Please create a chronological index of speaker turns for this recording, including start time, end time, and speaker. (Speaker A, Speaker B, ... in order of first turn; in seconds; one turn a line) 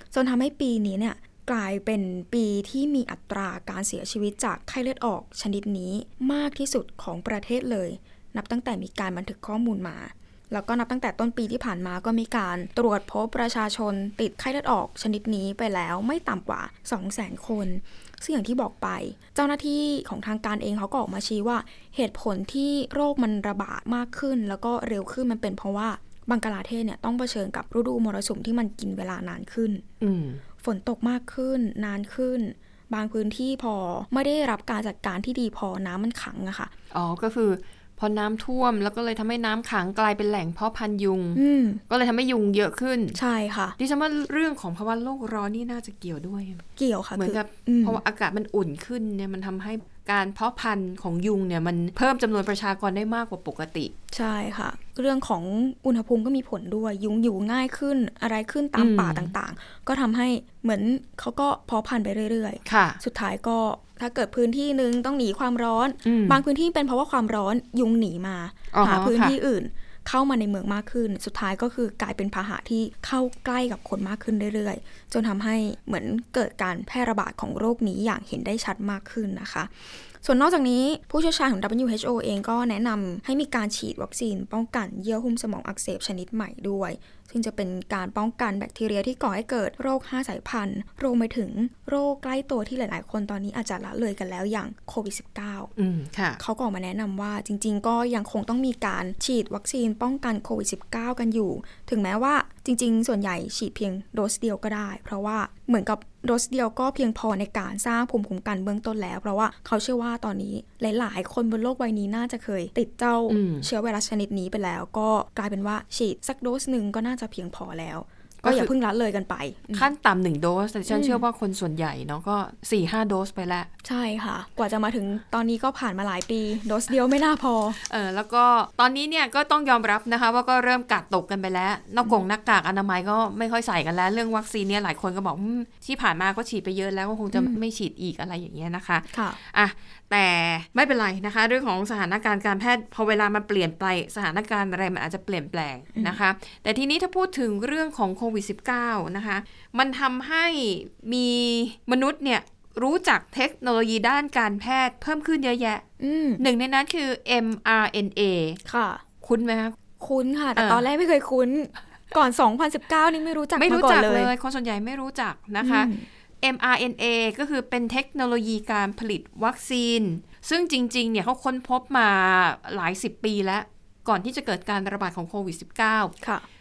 Speaker A: 0.1-29.8
Speaker B: 30.0-30.4
Speaker A: 30.6-36.7
Speaker B: 36.9-43.2
Speaker A: 41.3-41.8
Speaker A: 43.1-43.8
Speaker B: 43.8-46.6
Speaker A: 46.8-48.0
Speaker B: 47.2-53.9
Speaker A: 54.1-95.7
Speaker B: 58.8-59.3
Speaker B: 62.6-63.0
Speaker B: 66.0-66.4
Speaker B: 68.7-69.3
Speaker B: 95.8-96.4
Speaker A: 96.4-119.9
Speaker B: 113.3-113.7
Speaker B: 118.4-118.7
Speaker B: 119.7-123.7
Speaker A: 120.9-121.2
Speaker A: 123.8-127.8
Speaker B: 127.9-155.8
Speaker A: 139.1-139.4
Speaker A: 156.0-156.4
Speaker B: 156.4-158.6
Speaker A: 158.6-159.0
Speaker B: 159.2-159.8
Speaker A: 160.0-164.3
Speaker B: 160.6-160.8
Speaker B: 163.6-165.9
Speaker A: 165.6-166.1
Speaker B: 166.4-176.1